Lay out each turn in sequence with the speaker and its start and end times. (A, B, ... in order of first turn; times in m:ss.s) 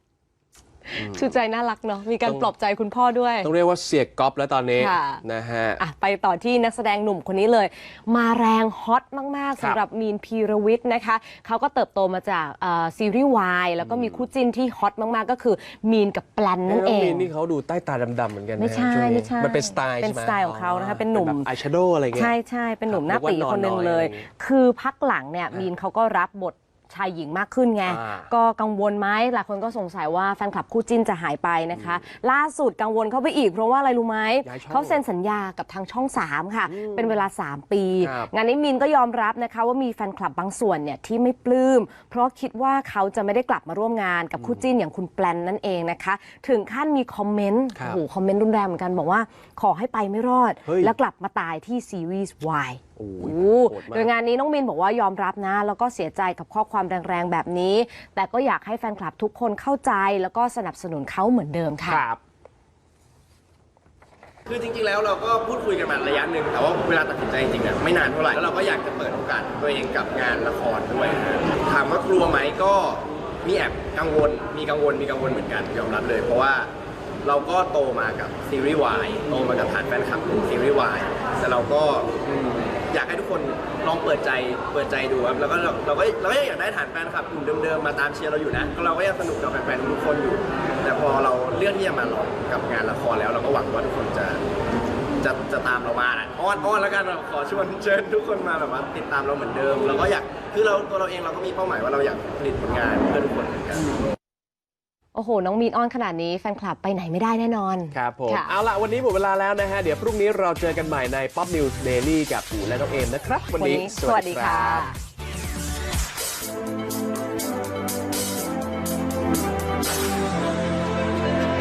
0:00.9-0:03.5 A
0:01.0-0:01.2 B
0:03.4-0:05.8 B
0:04.7-0:05.2 A
0:05.8-0:17.3 A
0:13.8-0:14.3 B
0:16.7-0:22.3 B
0:18.6-0:21.5 A
0:22.1-1:02.0 A
0:22.9-0:24.2 B
0:27.8-0:28.3 B
0:31.7-0:32.0 B
0:34.4-0:35.0 B
0:36.7-0:37.2 B
0:38.0-0:38.3 B
0:47.7-0:48.0 B
0:50.6-0:50.9 B
0:53.0-0:54.1 B
1:01.8-1:02.2 B
1:04.5-1:16.7 C
1:17.2-1:34.4 C
1:35.2-1:43.9 C
1:45.1-1:48.5 A
1:47.9-1:54.9 B
1:53.5-1:55.0 A